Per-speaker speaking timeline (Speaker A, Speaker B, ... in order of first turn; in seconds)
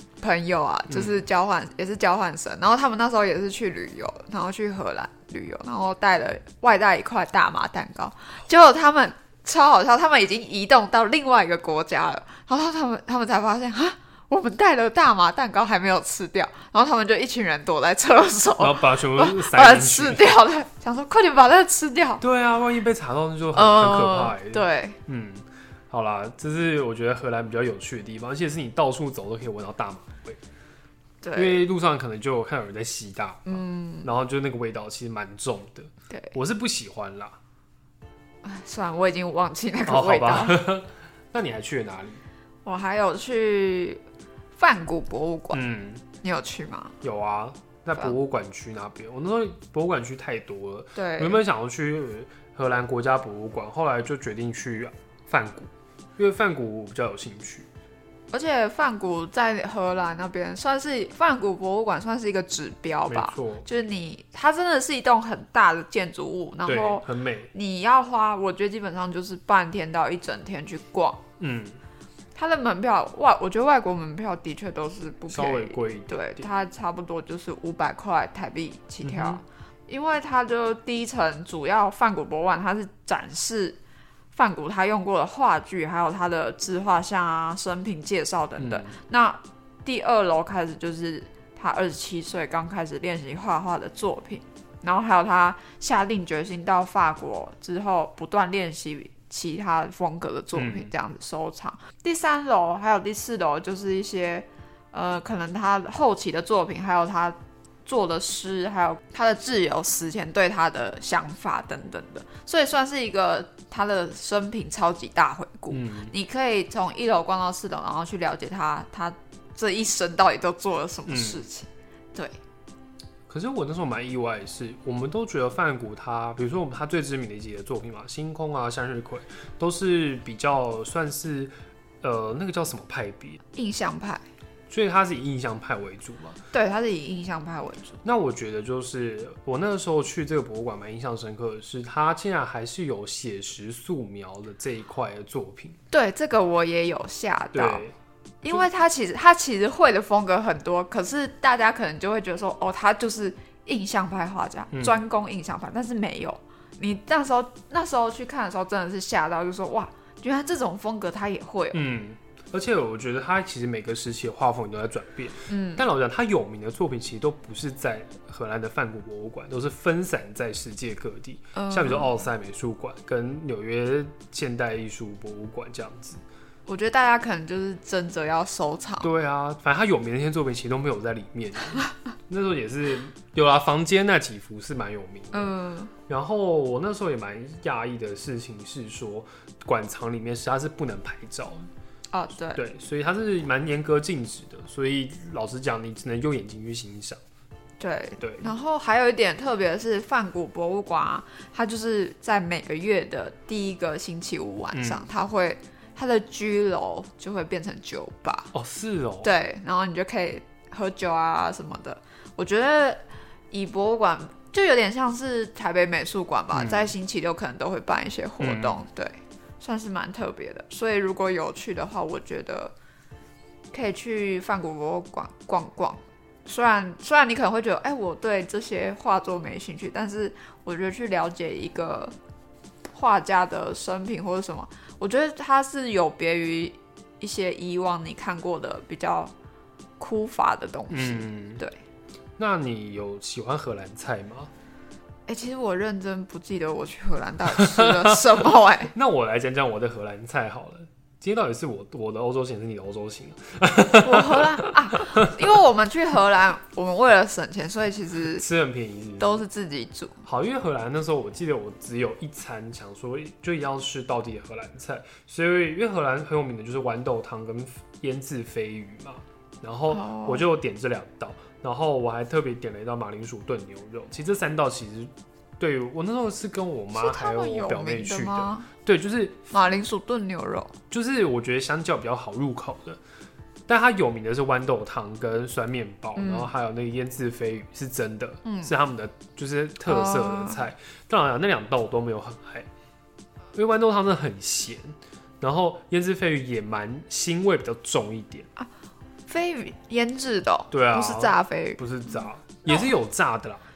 Speaker A: 0.2-22.2, 23.5-25.0, 31.2-31.6, 33.5-34.1, 38.4-40.6, 42.6-44.0, 44.6-45.6, 46.2-47.0, 50.9-51.4, 58.3-71.2, 72.3-83.8, 84.3-122.3, 133.5-134.2, 136.5-138.0, 145.9-147.8, 148.4-161.8, 165.5-165.8, 171.5-172.2, 176.7-179.1, 185.3-185.9, 192.1-192.6, 197.8-208.5, 209.2-222.7, 223.7-232.1, 232.9-239.3, 240.0-241.8, 245.3-248.9, 254.0-258.4, 259.2-260.2, 269.9-270.4, 276.9-278.7, 279.5-280.8, 286.1-286.5, 288.4-288.7, 289.9-290.6, 299.3-302.9
Speaker B: 0.9-1.1, 18.6-20.4, 22.2-30.4, 31.3-37.4, 39.9-42.2, 45.5-46.0, 47.0-57.7, 63.1-63.6, 66.7-67.5, 71.4-71.8, 75.3-76.5, 79.0-79.4, 88.6-89.0, 100.5-100.9, 115.7-116.1, 121.1-121.4, 123.3-133.4, 134.7-136.4, 138.0-145.8, 147.5-147.9, 154.7-155.0, 161.7-176.2, 179.0-185.5, 186.1-191.7, 192.5-197.2, 198.2-198.5, 204.7-205.1, 208.5-209.3, 216.5-216.9, 218.4-218.8, 240.9-241.6, 242.4-244.5, 247.5-255.2, 258.3-259.4, 260.2-279.4, 280.9-283.0, 283.7-292.7, 293.5-298.5, 300.7-303.6